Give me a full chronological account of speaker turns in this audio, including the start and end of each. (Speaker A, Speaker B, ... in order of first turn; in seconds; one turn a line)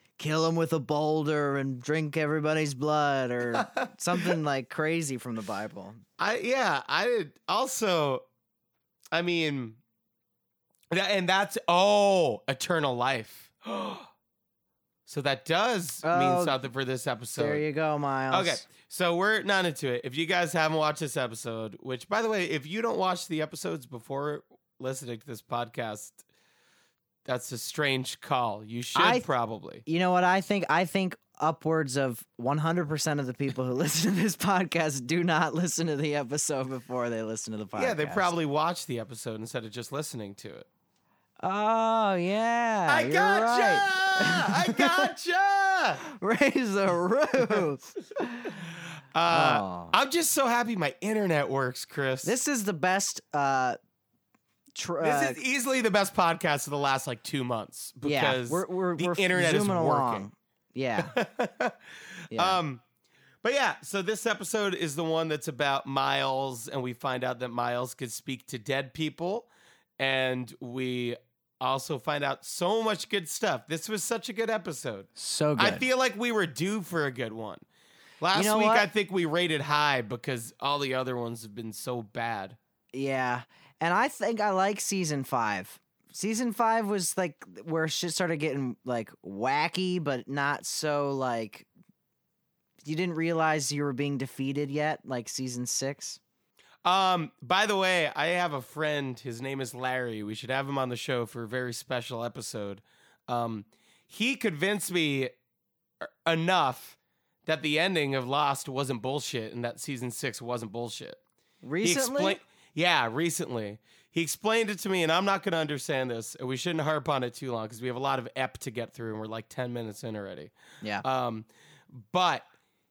Speaker A: 0.2-6.0
Speaker B: 3.5-4.3
Speaker B: 6.2-8.2
Speaker B: 9.1-9.8
Speaker B: 10.9-14.1
Speaker B: 15.1-17.6
Speaker A: 16.0-16.6
Speaker A: 17.4-18.6
Speaker B: 18.3-26.2
Speaker B: 27.2-29.8
Speaker A: 28.9-29.3
Speaker A: 29.9-38.3
Speaker B: 37.7-40.7
Speaker A: 41.4-45.1
Speaker B: 42.9-46.0
Speaker A: 46.0-48.6
Speaker B: 49.1-52.4
Speaker A: 49.3-49.9
Speaker A: 52.2-53.8
Speaker A: 54.7-55.4
Speaker B: 55.0-60.2
Speaker A: 58.0-61.2
Speaker B: 61.0-62.8
Speaker A: 62.3-62.6
Speaker B: 63.4-77.6
Speaker A: 75.2-75.8
Speaker B: 78.2-82.6
Speaker A: 78.3-78.9
Speaker A: 82.9-91.7
Speaker A: 92.8-96.2
Speaker B: 96.8-105.3
Speaker B: 106.0-111.2
Speaker A: 111.6-112.4
Speaker B: 111.8-122.5